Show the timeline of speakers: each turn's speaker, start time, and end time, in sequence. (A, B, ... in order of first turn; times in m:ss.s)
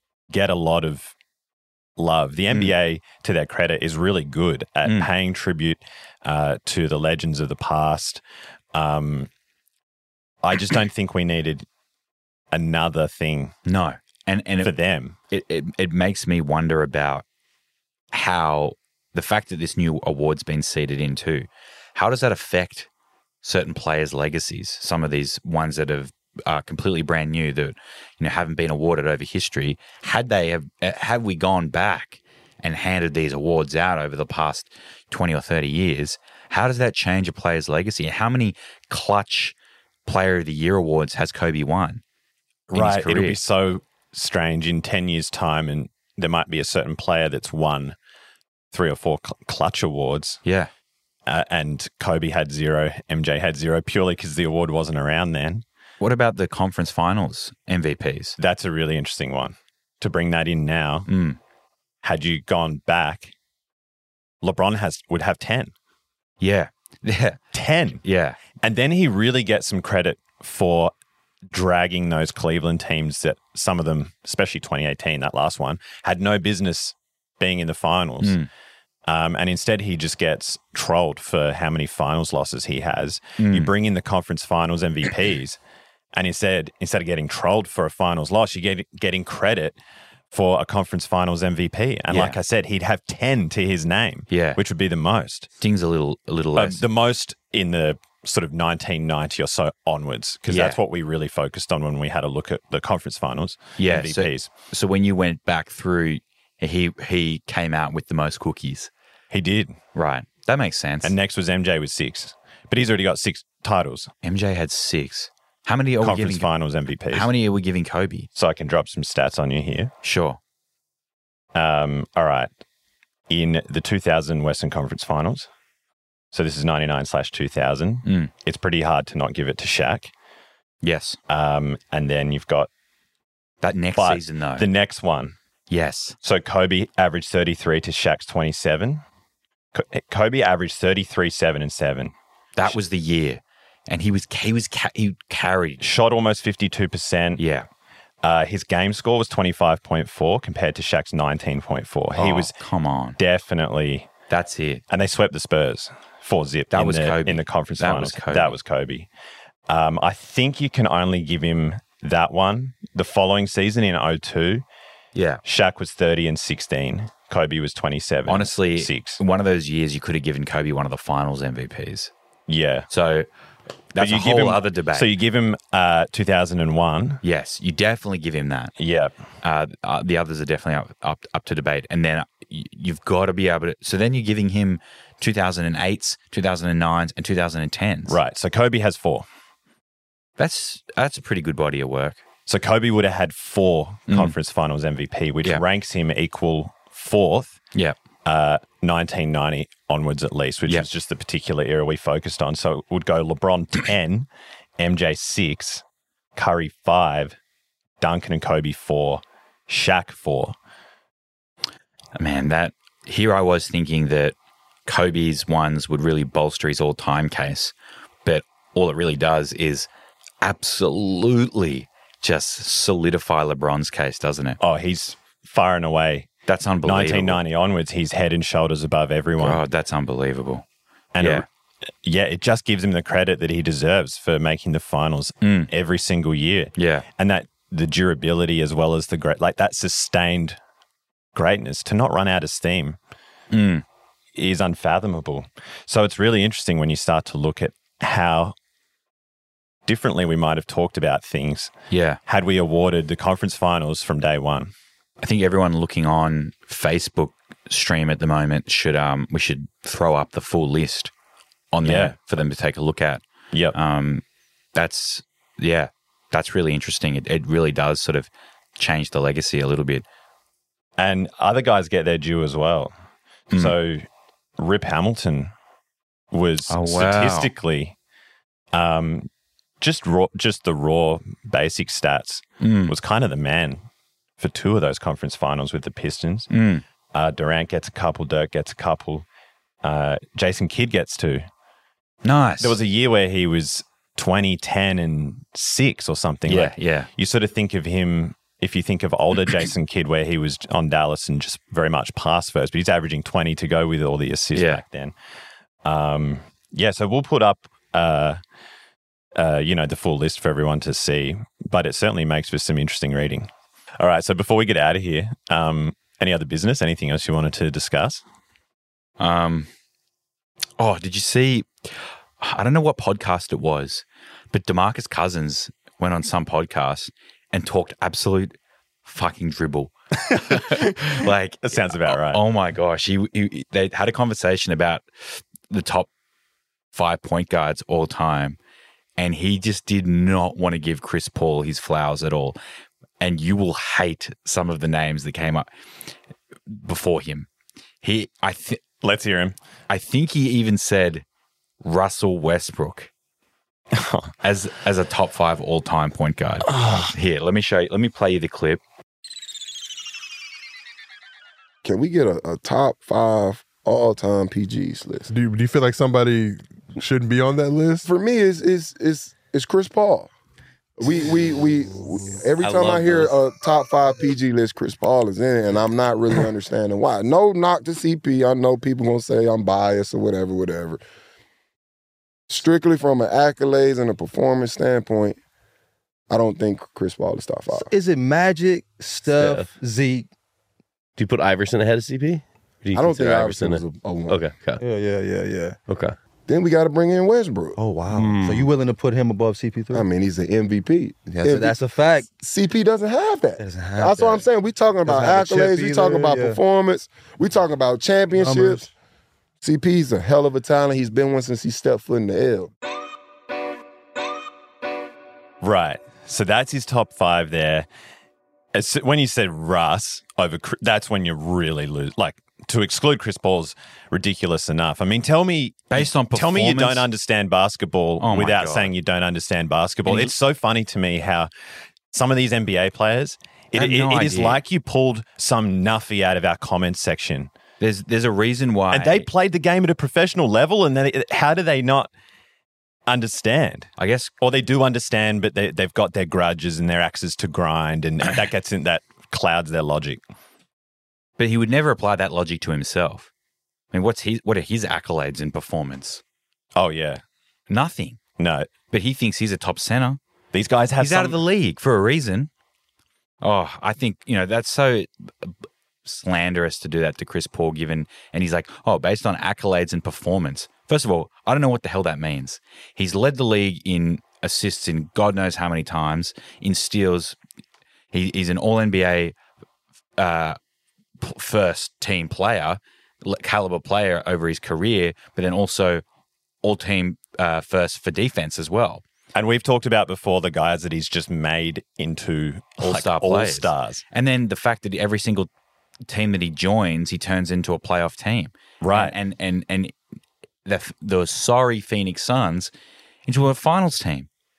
0:00.3-0:01.1 A
0:02.0-0:08.2 A
0:04.8-0:05.1 B
0:08.7-0:09.3 A
0:10.4-0:11.7 A
0:12.5-0:13.5 A
0:13.6-0:14.8 B
0:14.6-0:15.2 A
0:15.3-0:17.2 B
0:18.1-0:22.9 B
0:23.4-0:42.0 B
0:42.7-0:48.0 A
0:42.7-0:43.4 B
0:48.7-0:50.4 A
0:50.4-0:50.7 B
0:51.3-0:55.6 A
0:56.0-0:58.4 B
0:58.4-1:01.1 A
1:01.1-1:01.4 B
1:02.0-1:03.3 A
1:04.4-1:05.7 A
1:06.4-1:07.4 B
1:07.5-1:08.0 A
1:08.0-1:08.4 B
1:08.6-1:10.9 A
1:11.5-1:18.4 A
1:18.2-1:18.5 B
1:19.1-1:25.6 A
1:23.4-1:23.7 B
1:26.1-1:29.8 A
1:30.3-1:35.5 A
1:32.1-1:32.4 B
1:34.3-1:34.6 B
1:35.6-1:36.8 B
1:36.6-1:44.5 A
1:40.5-1:40.8 B
1:43.8-1:48.9 B
1:49.3-1:49.8 A
1:50.0-1:51.2 B
1:51.0-1:54.1 A
1:54.2-1:56.5 B
1:56.0-1:57.3 A
1:57.1-1:58.3 B
1:58.4-1:59.9 A
2:00.0-2:00.4 B
2:01.6-2:02.5 A
2:03.3-2:05.5 A
2:06.3-2:10.1 A
2:08.0-2:08.3 B
2:10.8-2:11.2 B
2:11.3-2:12.7 A
2:13.6-2:14.7 B
2:14.0-2:15.4 A
2:15.7-2:16.2 B
2:16.2-2:19.0 A
2:19.7-2:22.1 A
2:22.6-2:25.8 B
2:25.8-2:27.4 A
2:27.4-2:27.7 B
2:28.2-2:32.6 A
2:32.2-2:33.2 B
2:33.2-2:34.1 A
2:34.3-2:34.8 B
2:34.9-2:39.1 A
2:36.7-2:38.6 B
2:39.7-2:44.6 A
2:45.1-2:45.4 B
2:45.4-2:49.2 A
2:48.3-2:52.1 B
2:52.5-2:52.9 A
2:52.9-2:53.3 B
2:53.9-2:55.1 B
2:54.0-2:57.2 A
2:57.2-2:58.8 B
2:58.8-2:59.1 A
2:59.4-3:08.2 B
3:08.1-3:09.3 A
3:10.4-3:12.2 B
3:12.5-3:17.6 A
3:14.1-3:14.3 B
3:18.2-3:25.8 A
3:26.4-3:27.4 A
3:28.0-3:30.6 A
3:32.2-3:34.4 B
3:34.9-3:37.7 B
3:38.2-3:39.9 B
3:40.4-3:44.6 B
3:44.6-3:46.3 A
3:46.5-3:47.4 B
3:46.8-3:49.6 A
3:49.4-3:50.7 B
3:51.1-3:51.5 A
3:51.2-3:51.5 B
3:52.0-4:00.6 A
3:55.4-3:55.7 B
3:56.8-3:57.1 B
4:01.3-4:03.0 A
4:03.5-4:03.8 B
4:04.4-4:08.5 A
4:09.9-4:11.7 A
4:11.9-4:12.2 B
4:12.3-4:14.7 A
4:15.2-4:21.1 B
4:21.7-4:30.0 B
4:21.8-4:22.2 A
4:31.0-4:32.9 A
4:33.5-4:33.8 B
4:33.6-4:34.0 A
4:34.6-4:35.5 A
4:36.3-4:38.0 A
4:36.7-4:37.5 B
4:38.7-4:39.3 A
4:39.8-4:43.8 A
4:42.6-4:43.0 B
4:44.4-4:46.5 A
4:46.5-4:46.8 B
4:47.1-4:49.3 A
4:49.8-4:51.4 A
4:52.2-4:52.8 B
4:52.6-5:05.1 A
4:56.5-4:57.1 B
5:04.5-5:04.8 B
5:05.8-5:08.4 A
5:09.4-5:18.2 A
5:19.2-5:19.7 B
5:20.8-5:36.1 B
5:30.2-5:32.4 A
5:36.9-5:38.6 B
5:39.2-5:42.6 B
5:43.2-5:45.7 B
5:46.7-5:47.5 B
5:48.0-5:48.8 B
5:49.0-5:49.6 A
5:49.9-5:51.2 B
5:51.8-5:53.1 B
5:53.9-5:54.3 A
5:54.4-5:58.8 B
5:56.7-5:57.1 A
6:01.8-6:05.3 C
6:05.3-6:08.1 D
6:08.0-6:10.3 C
6:11.0-6:21.0 C
6:12.6-6:13.3 E
6:22.5-6:25.4 C
6:26.3-6:27.9 C
6:27.7-6:30.3 F
6:29.4-6:29.7 E
6:31.2-6:34.8 E
6:33.0-6:34.4 C
6:34.8-6:35.8 F
6:35.9-6:36.2 E
6:36.5-6:37.8 C
6:37.8-6:40.0 F
6:38.1-6:38.7 E
6:39.9-6:41.8 C
6:41.3-6:42.3 F
6:42.3-6:48.9 C
6:43.6-6:44.4 F
6:45.0-6:46.6 F
6:48.4-6:48.9 F
6:49.6-6:52.7 C
6:55.6-6:57.9 A
6:58.7-7:11.5 A
7:05.9-7:07.1 B
7:08.2-7:08.9 B
7:10.1-7:10.3 B
7:12.1-7:17.5 A
7:13.7-7:14.6 B
7:17.8-7:19.3 B
7:18.9-7:22.1 A
7:23.1-7:30.2 A
7:24.0-7:24.3 B
7:31.4-7:33.3 B
7:33.9-7:36.2 B
7:36.8-7:37.2 A
7:37.7-7:38.2 B
7:38.4-7:38.7 A
7:38.9-7:40.2 B
7:40.5-7:41.4 A
7:41.0-7:42.5 B
7:43.4-7:57.4 B
7:58.1-7:59.4 B
8:00.2-8:00.6 B
8:01.2-8:06.0 B
8:06.6-8:09.0 B
8:09.4-8:14.0 A
8:12.8-8:15.5 B
8:16.1-8:20.0 B
8:18.8-8:19.2 A
8:20.6-8:22.7 B
8:23.3-8:24.3 B